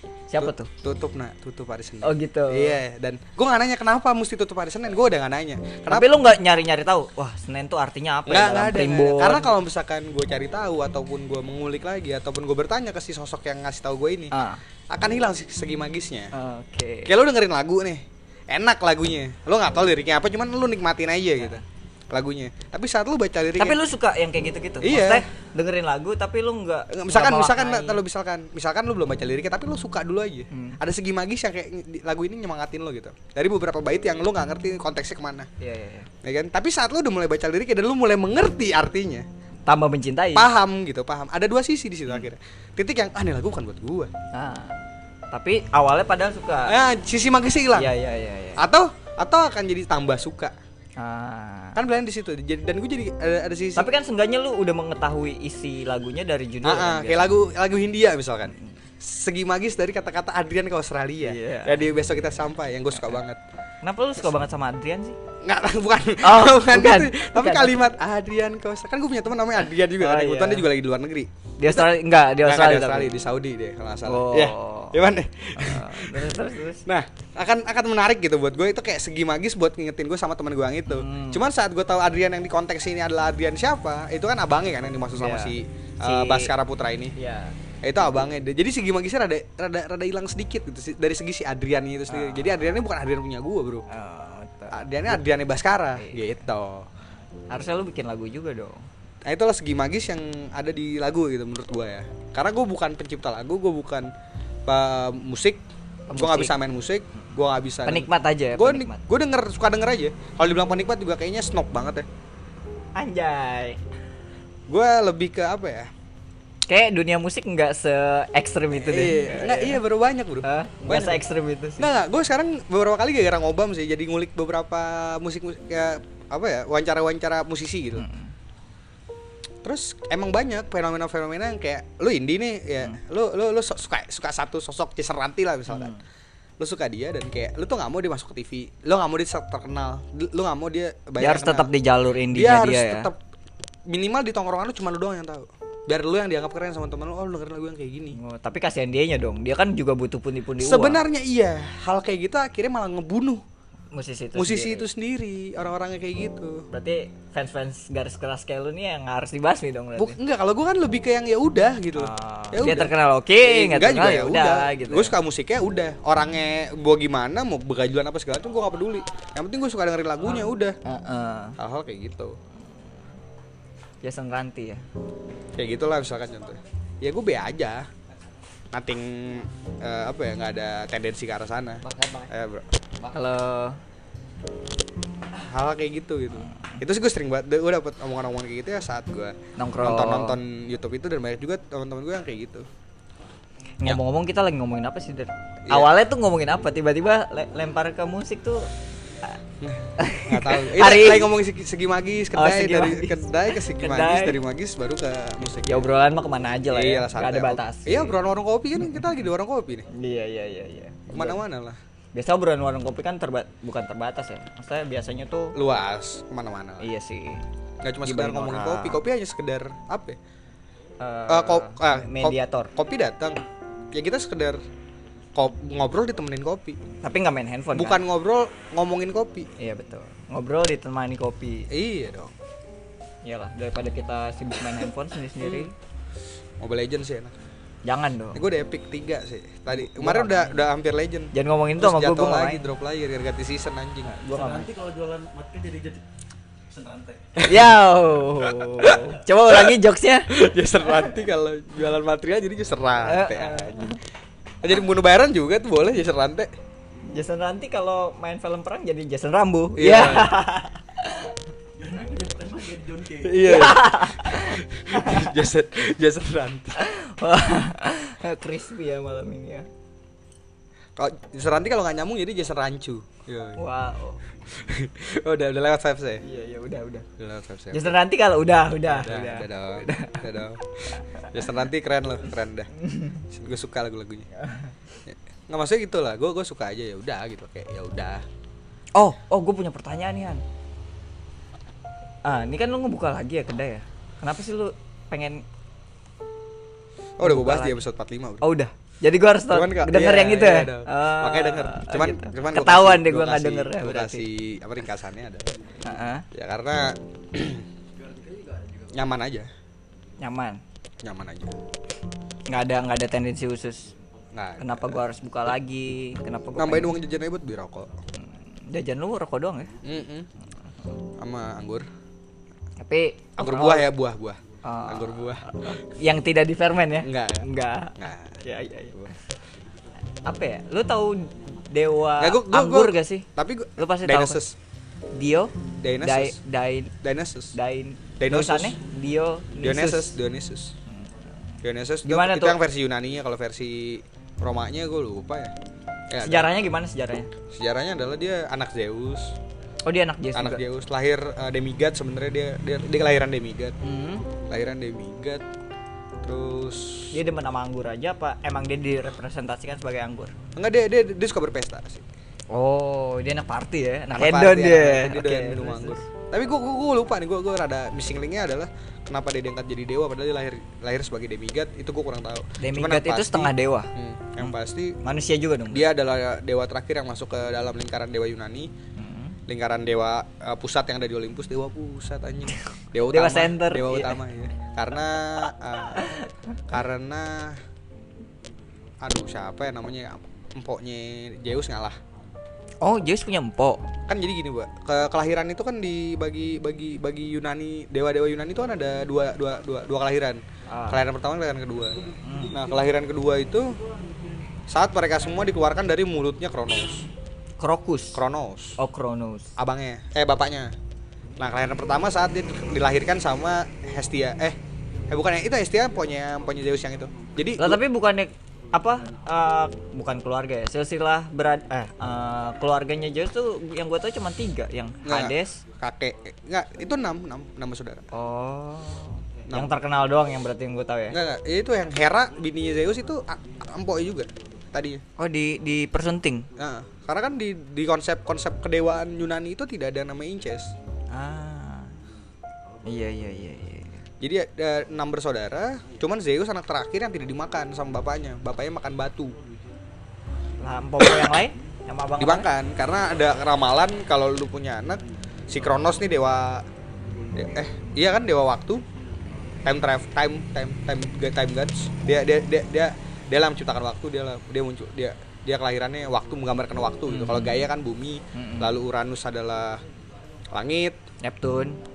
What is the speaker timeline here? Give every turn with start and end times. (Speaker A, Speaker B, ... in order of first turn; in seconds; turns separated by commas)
Speaker A: 0.3-0.7, Speaker B: 0.4-6.1, Speaker A: 2.0-2.8, Speaker A: 5.9-9.6, Speaker B: 8.3-14.3, Speaker A: 14.3-14.6, Speaker B: 14.9-16.3, Speaker A: 16.3-17.1, Speaker B: 17.1-23.8, Speaker A: 23.6-28.0, Speaker B: 24.8-25.2, Speaker B: 26.9-35.5, Speaker A: 30.5-30.8, Speaker A: 35.6-36.1, Speaker B: 36.2-39.3, Speaker A: 39.7-40.5, Speaker B: 40.4-44.1, Speaker A: 44.3-44.8, Speaker A: 45.3-46.7, Speaker B: 46.7-47.9, Speaker A: 47.8-48.7, Speaker B: 48.6-50.5, Speaker A: 51.0-51.8, Speaker B: 51.8-53.9, Speaker A: 53.8-57.3, Speaker B: 56.6-63.4, Speaker A: 61.2-61.9, Speaker A: 63.8-65.2, Speaker B: 65.4-87.1, Speaker A: 66.2-67.9, Speaker A: 70.0-70.7, Speaker A: 71.6-73.1, Speaker A: 74.0-75.0, Speaker A: 75.6-76.9, Speaker A: 80.9-81.4, Speaker A: 85.1-86.5, Speaker A: 87.2-87.6, Speaker B: 87.8-93.8, Speaker A: 92.1-92.5, Speaker A: 93.9-95.2, Speaker B: 94.7-96.9, Speaker A: 96.0-96.3, Speaker A: 97.5-98.8, Speaker B: 99.2-104.1, Speaker B: 104.7-105.6, Speaker A: 106.1-106.5, Speaker B: 106.2-112.1, Speaker A: 107.8-109.0, Speaker A: 113.0-113.8, Speaker B: 114.7-115.9, Speaker A: 116.7-119.8, Speaker B: 118.7-121.2, Speaker A: 120.4-121.9, Speaker B: 121.8-128.1, Speaker A: 128.0-128.3, Speaker B: 129.6-135.9, Speaker A: 135.7-136.0, Speaker B: 136.6-141.7, Speaker A: 141.2-143.1, Speaker B: 142.3-143.2, Speaker B: 143.9-148.2, Speaker A: 148.1-151.0, Speaker B: 150.6-153.4, Speaker A: 153.9-154.9, Speaker B: 154.3-156.7, Speaker A: 156.7-160.2, Speaker B: 160.0-170.8, Speaker A: 162.0-165.2, Speaker A: 170.8-171.6, Speaker B: 171.6-172.4, Speaker A: 174.0-174.8, Speaker B: 175.6-177.9, Speaker B: 178.7-182.7, Speaker A: 181.9-182.3, Speaker A: 183.0-183.8, Speaker B: 185.3-192.7, Speaker A: 186.5-186.8, Speaker A: 189.6-190.4, Speaker A: 193.8-198.7, Speaker B: 199.6-205.8, Speaker A: 200.0-201.3, Speaker A: 202.3-204.4, Speaker A: 205.7-208.2, Speaker B: 206.7-209.9, Speaker A: 208.8-209.2, Speaker A: 209.9-211.4, Speaker B: 211.1-211.8, Speaker A: 212.1-215.6, Speaker B: 215.6-216.9, Speaker A: 216.8-217.4, Speaker B: 217.8-220.2, Speaker A: 218.0-219.0, Speaker A: 221.0-222.7, Speaker B: 221.3-224.6, Speaker B: 225.3-226.8, Speaker A: 227.0-228.0, Speaker B: 227.7-229.5, Speaker A: 229.6-231.7, Speaker B: 231.7-232.3, Speaker A: 233.2-235.7, Speaker B: 235.4-235.7, Speaker B: 236.6-237.4, Speaker A: 237.9-238.4, Speaker B: 238.3-244.2, Speaker A: 239.7-240.7, Speaker A: 241.3-242.7, Speaker A: 244.1-244.7, Speaker C: 244.3-246.0, Speaker C: 246.7-247.4, Speaker B: 247.4-247.7, Speaker A: 247.4-250.3, Speaker B: 248.4-249.7, Speaker B: 250.3-254.0, Speaker A: 253.0-254.0, Speaker B: 254.6-256.5, Speaker A: 257.1-261.3, Speaker B: 259.8-260.4, Speaker C: 261.8-263.6, Speaker B: 263.2-266.8, Speaker A: 263.4-265.3, Speaker A: 266.8-269.7, Speaker B: 271.0-273.6, Speaker A: 273.6-274.2, Speaker B: 274.5-276.2, Speaker A: 276.2-277.1, Speaker B: 277.2-278.0, Speaker A: 277.7-280.3, Speaker B: 278.9-282.7, Speaker A: 281.0-281.3, Speaker A: 282.8-283.2, Speaker B: 283.3-284.3, Speaker A: 284.4-284.7, Speaker B: 285.1-288.2, Speaker A: 288.9-290.4, Speaker A: 292.2-295.4, Speaker B: 297.2-298.5, Speaker A: 297.2-297.8, Speaker A: 298.4-304.2, Speaker B: 299.5-305.5, Speaker A: 305.8-306.3, Speaker B: 306.3-307.7, Speaker C: 308.0-308.9, Speaker B: 308.9-309.5, Speaker A: 310.2-310.6, Speaker B: 311.0-311.5, Speaker A: 312.5-313.9, Speaker B: 314.3-315.0, Speaker A: 314.6-317.0, Speaker B: 316.6-317.9, Speaker A: 318.2-319.8, Speaker B: 319.8-320.3, Speaker B: 321.2-321.9, Speaker A: 322.8-323.9, Speaker B: 323.4-325.5, Speaker A: 324.6-329.2, Speaker B: 327.0-328.4, Speaker A: 330.2-334.4, Speaker B: 332.2-334.6, Speaker A: 335.1-336.9, Speaker B: 335.6-336.4, Speaker B: 337.0-337.6, Speaker A: 337.5-340.2, Speaker B: 338.2-338.8, Speaker B: 339.6-340.8, Speaker A: 340.9-341.1, Speaker B: 341.6-345.5, Speaker A: 342.0-342.6, Speaker B: 346.1-346.5, Speaker A: 346.2-347.3, Speaker B: 347.5-349.4, Speaker A: 349.9-350.6, Speaker B: 350.3-353.8, Speaker A: 353.8-354.3, Speaker B: 354.4-355.4, Speaker B: 356.2-357.1, Speaker A: 357.1-360.3, Speaker B: 360.6-362.1, Speaker A: 362.5-366.1, Speaker B: 364.1-375.0, Speaker A: 372.6-375.9, Speaker B: 375.7-378.7, Speaker A: 379.0-379.4, Speaker B: 379.5-386.1, Speaker A: 382.5-384.2, Speaker A: 386.0-386.3, Speaker B: 386.7-387.6, Speaker B: 389.0-392.0, Speaker A: 392.8-393.8, Speaker B: 394.1-403.8, Speaker A: 400.7-401.0, Speaker A: 402.2-402.6, Speaker B: 404.7-407.1, Speaker A: 407.6-408.2, Speaker B: 408.1-408.8, Speaker A: 408.8-409.6, Speaker B: 409.6-410.7, Speaker B: 411.4-414.6, Speaker B: 415.1-417.8, Speaker A: 417.6-425.6, Speaker B: 425.1-428.1, Speaker A: 428.1-431.2, Speaker B: 429.5-429.7, Speaker B: 431.1-435.0, Speaker A: 435.2-436.5, Speaker B: 436.6-440.7, Speaker A: 441.1-442.0, Speaker A: 442.9-444.0, Speaker B: 444.2-449.4, Speaker A: 450.6-452.5, Speaker B: 451.0-451.4, Speaker B: 452.2-456.7, Speaker B: 457.3-458.9, Speaker B: 459.6-469.8, Speaker A: 467.1-467.7, Speaker A: 468.3-468.8, Speaker B: 470.5-471.0, Speaker A: 471.2-471.8